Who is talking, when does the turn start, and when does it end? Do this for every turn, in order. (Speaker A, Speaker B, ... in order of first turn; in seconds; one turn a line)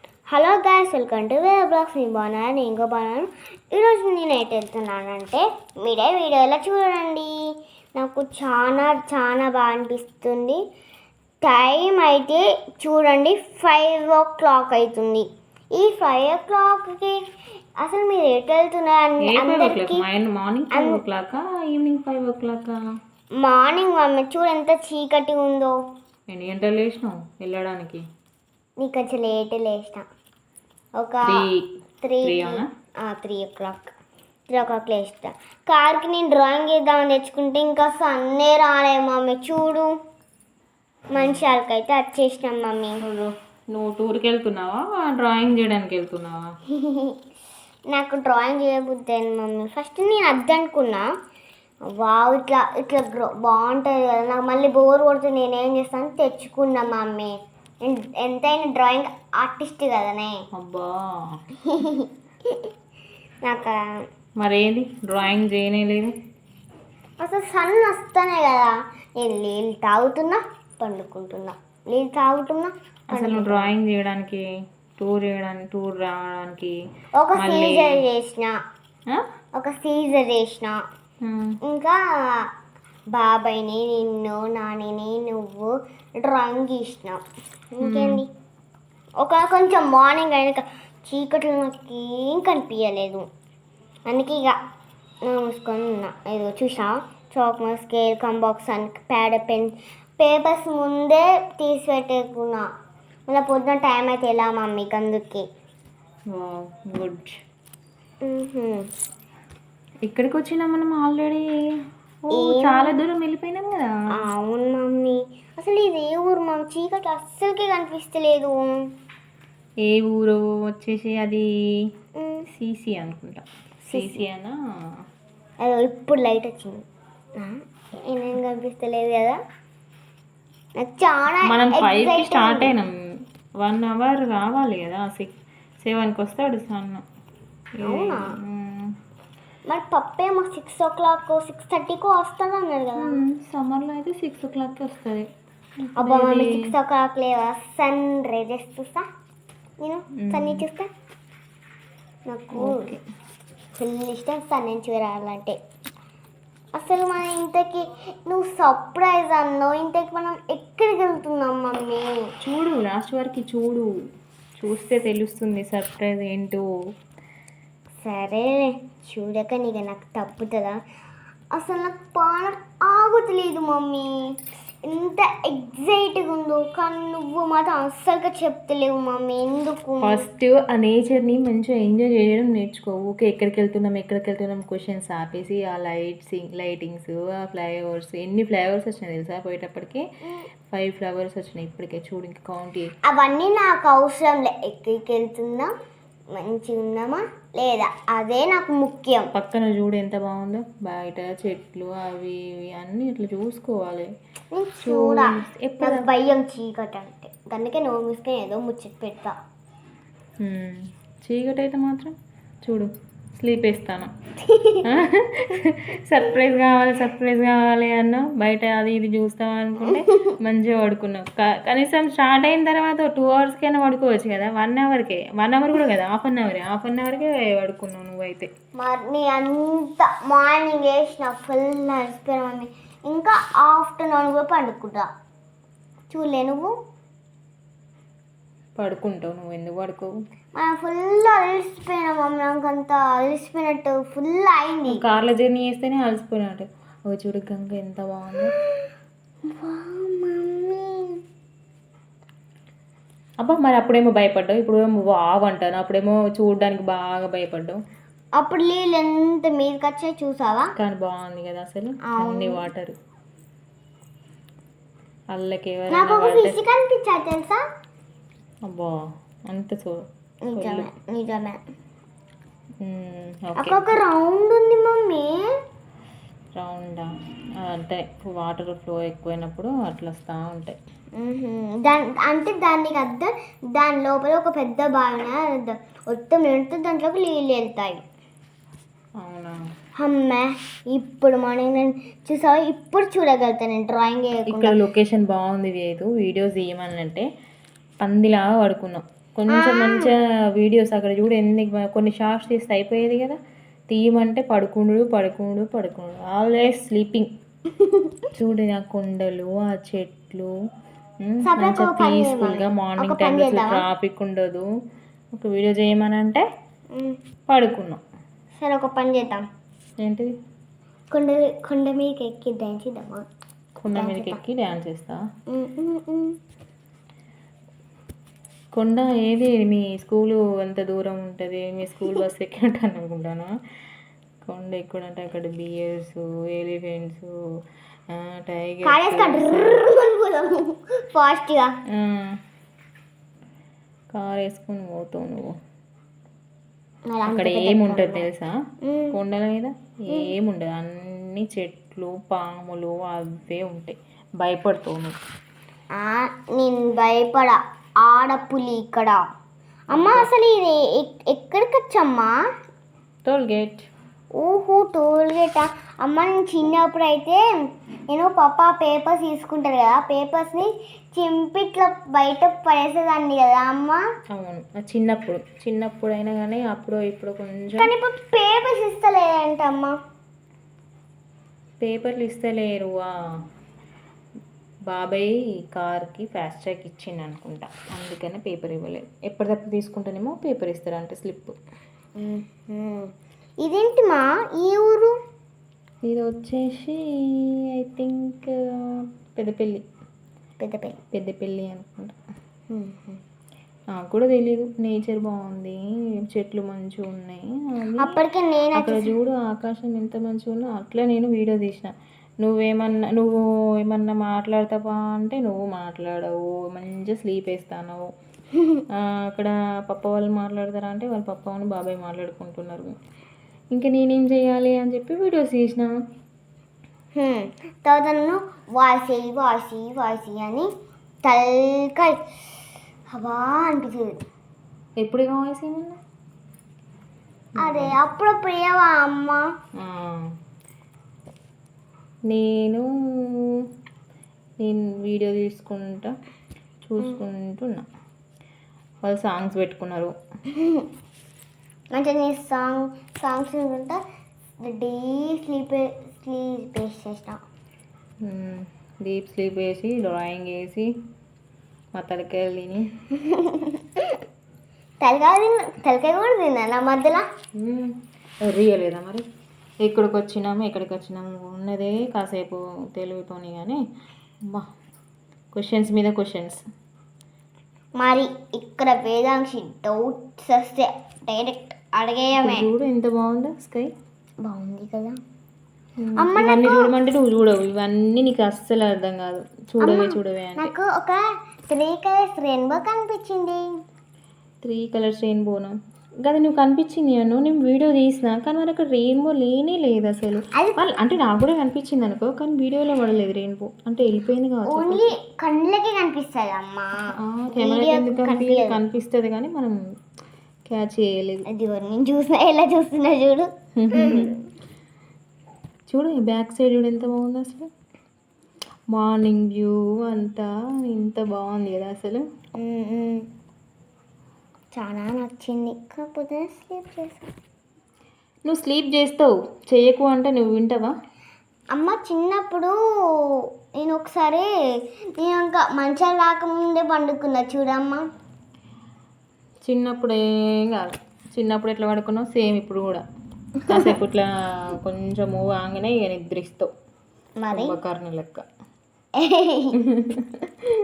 Speaker A: 0.3-7.4
Speaker A: 8.0-10.6
Speaker A: 11.4-17.2
Speaker A: 17.8-20.0
Speaker B: 19.2-22.8
Speaker A: 20.7-21.0
Speaker A: 23.4-25.8
Speaker B: 26.3-28.0
Speaker A: 28.8-30.0
Speaker A: 31.0-31.4
Speaker B: 31.2-31.7
Speaker A: 32.0-33.9
Speaker B: 32.2-32.7
Speaker A: 34.5-39.9
Speaker A: 41.1-43.0
Speaker B: 41.1-41.4
Speaker B: 43.0-46.4
Speaker A: 46.7-47.1
Speaker A: 47.9-51.0
Speaker A: 51.9-60.4
Speaker B: 60.5-61.4
Speaker A: 61.6-62.7
Speaker A: 63.4-63.8
Speaker B: 64.4-66.1
Speaker A: 67.2-73.7
Speaker B: 73.1-74.4
Speaker B: 75.0-76.7
Speaker A: 77.2-78.5
Speaker B: 77.4-78.0
Speaker A: 79.5-80.8
Speaker B: 81.2-81.6
Speaker A: 81.6-82.5
Speaker A: 83.1-87.2
Speaker A: 87.8-88.3
Speaker B: 87.8-88.2
Speaker A: 89.2-93.2
Speaker A: 94.1-94.5
Speaker A: 95.2-102.7
Speaker A: 103.3-105.5
Speaker B: 106.3-107.4
Speaker A: 108.2-108.9
Speaker B: 110.1-111.5
Speaker B: 112.2-113.9
Speaker A: 112.3-113.0
Speaker A: 114.2-118.7
Speaker B: 119.8-121.5
Speaker A: 122.2-122.4
Speaker B: 122.5-124.5
Speaker A: 123.9-124.2
Speaker A: 125.6-126.8
Speaker A: 127.4-129.4
Speaker A: 130.8-132.7
Speaker B: 131.4-132.9
Speaker B: 133.6-137.0
Speaker B: 137.8-138.9
Speaker A: 137.8-138.3
Speaker A: 139.7-143.1
Speaker B: 143.0-145.3
Speaker B: 145.8-146.7
Speaker A: 146.0-149.0
Speaker A: 149.8-150.9
Speaker B: 150.2-150.6
Speaker A: 152.3-152.9
Speaker B: 152.5-153.0
Speaker A: 153.8-155.6
Speaker A: 156.7-162.2
Speaker B: 162.4-163.9
Speaker B: 164.6-166.6
Speaker A: 168.0-170.8
Speaker A: 171.5-174.3
Speaker A: 174.8-180.2
Speaker B: 180.0-190.0
Speaker B: 190.7-192.9
Speaker A: 193.0-195.7
Speaker A: 196.3-199.3
Speaker B: 199.3-204.1
Speaker A: 204.5-209.3
Speaker B: 204.8-206.1
Speaker B: 210.4-214.1
Speaker A: 214.5-214.8
Speaker B: 214.8-228.5
Speaker A: 219.9-220.2
Speaker A: 228.8-235.1
Speaker A: 236.1-236.7
Speaker B: 238.8-240.1
Speaker A: 240.6-245.0
Speaker B: 244.9-248.5
Speaker A: 249.5-251.2
Speaker B: 253.4-257.8
Speaker A: 258.4-260.7
Speaker B: 260.8-262.9
Speaker A: 262.1-262.6
Speaker B: 265.3-266.6
Speaker A: 265.9-267.6
Speaker B: 268.6-268.9
Speaker B: 269.5-270.9
Speaker A: 270.5-271.6
Speaker B: 272.8-273.8
Speaker A: 273.6-275.4
Speaker B: 276.6-277.1
Speaker B: 277.6-280.8
Speaker A: 281.2-288.0
Speaker B: 289.2-289.6
Speaker A: 290.0-294.8
Speaker B: 294.5-297.3
Speaker B: 298.0-303.4
Speaker A: 299.5-300.1
Speaker B: 303.9-307.3
Speaker A: 307.8-308.1
Speaker B: 308.3-310.5
Speaker B: 311.2-314.7
Speaker A: 311.4-313.8
Speaker B: 315.3-316.4
Speaker B: 317.5-318.0
Speaker A: 318.6-319.4
Speaker B: 320.0-320.3
Speaker A: 321.1-323.2
Speaker B: 323.8-325.2
Speaker A: 323.9-324.4
Speaker A: 325.5-326.3
Speaker B: 328.7-333.5
Speaker B: 334.4-337.3
Speaker B: 338.1-339.8
Speaker A: 338.8-341.7
Speaker B: 341.9-342.4
Speaker B: 344.1-345.5
Speaker A: 347.1-348.2
Speaker B: 347.2-348.6
Speaker A: 348.8-349.1
Speaker B: 349.1-355.1
Speaker A: 355.9-359.2
Speaker A: 359.9-362.3
Speaker B: 359.9-360.3
Speaker B: 363.2-363.9
Speaker A: 364.4-367.4
Speaker A: 368.1-374.0
Speaker B: 374.3-377.9
Speaker A: 377.8-379.9
Speaker B: 381.8-383.1
Speaker B: 384.9-391.5
Speaker A: 392.2-393.1
Speaker A: 393.6-395.1
Speaker B: 396.1-397.0
Speaker B: 397.7-398.6
Speaker B: 399.3-399.8
Speaker A: 400.6-401.0
Speaker B: 401.1-402.1
Speaker A: 402.7-403.2
Speaker B: 403.9-408.2
Speaker A: 408.0-409.1
Speaker B: 408.7-418.1
Speaker B: 418.9-422.9
Speaker B: 423.7-425.9
Speaker A: 427.1-430.7
Speaker A: 431.2-432.2
Speaker A: 433.1-434.1
Speaker B: 435.0-436.0
Speaker B: 437.6-437.9
Speaker A: 437.6-439.4
Speaker B: 439.8-440.2
Speaker B: 442.3-442.9
Speaker B: 444.6-446.1
Speaker B: 446.8-447.9
Speaker B: 449.0-450.1
Speaker A: 450.5-450.9
Speaker A: 451.9-454.0
Speaker A: 454.6-457.4
Speaker B: 458.2-460.9
Speaker B: 461.9-462.9
Speaker A: 463.1-464.2
Speaker A: 465.0-467.2
Speaker B: 467.6-467.9
Speaker B: 468.5-469.2
Speaker B: 469.8-473.8
Speaker B: 475.5-476.6
Speaker A: 478.0-482.7
Speaker B: 482.3-483.9
Speaker A: 484.4-485.2
Speaker B: 486.0-490.7
Speaker A: 486.2-486.9
Speaker A: 489.8-493.7
Speaker B: 494.6-505.1
Speaker A: 504.7-506.9
Speaker B: 507.2-509.8
Speaker A: 507.5-508.8
Speaker B: 510.7-511.4
Speaker A: 511.5-514.4
Speaker B: 513.8-514.3
Speaker B: 515.9-517.7
Speaker B: 518.9-522.2
Speaker A: 522.6-523.2
Speaker A: 524.7-527.3
Speaker B: 528.5-530.9
Speaker A: 531.7-534.5
Speaker A: 535.2-538.0
Speaker B: 539.6-543.0
Speaker B: 543.6-546.7
Speaker A: 547.4-547.7
Speaker B: 547.5-548.4
Speaker A: 549.2-549.7
Speaker B: 549.8-550.6